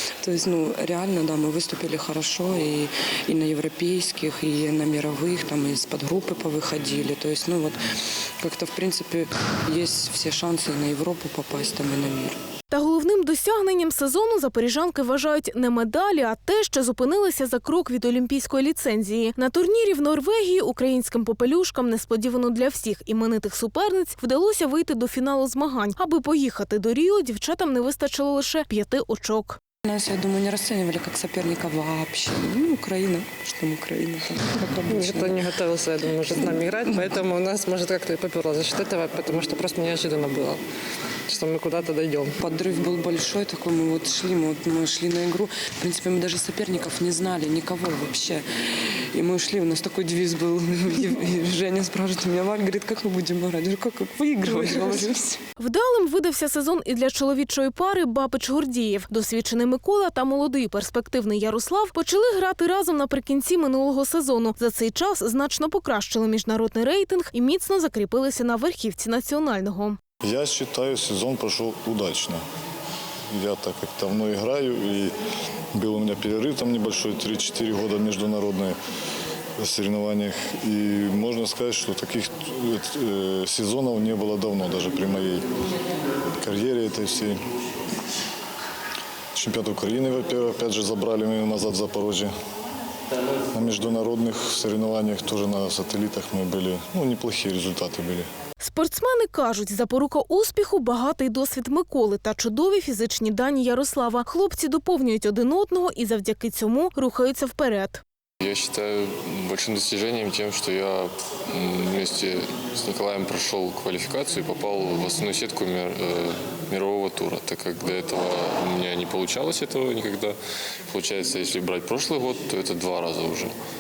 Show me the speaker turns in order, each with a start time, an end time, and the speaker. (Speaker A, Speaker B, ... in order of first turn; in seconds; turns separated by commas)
Speaker A: 0.2-7.8, Speaker A: 8.4-12.4, Speaker B: 12.7-29.6, Speaker A: 29.9-35.5, Speaker C: 34.9-40.6, Speaker C: 41.3-42.4, Speaker A: 42.4-55.4, Speaker B: 55.6-70.0, Speaker D: 70.2-72.4, Speaker D: 73.3-75.1, Speaker D: 75.7-78.8, Speaker D: 79.6-85.5, Speaker D: 86.4-87.4, Speaker D: 89.3-92.3, Speaker D: 93.5-98.3, Speaker B: 98.6-108.0, Speaker E: 108.4-120.4, Speaker E: 120.9-123.5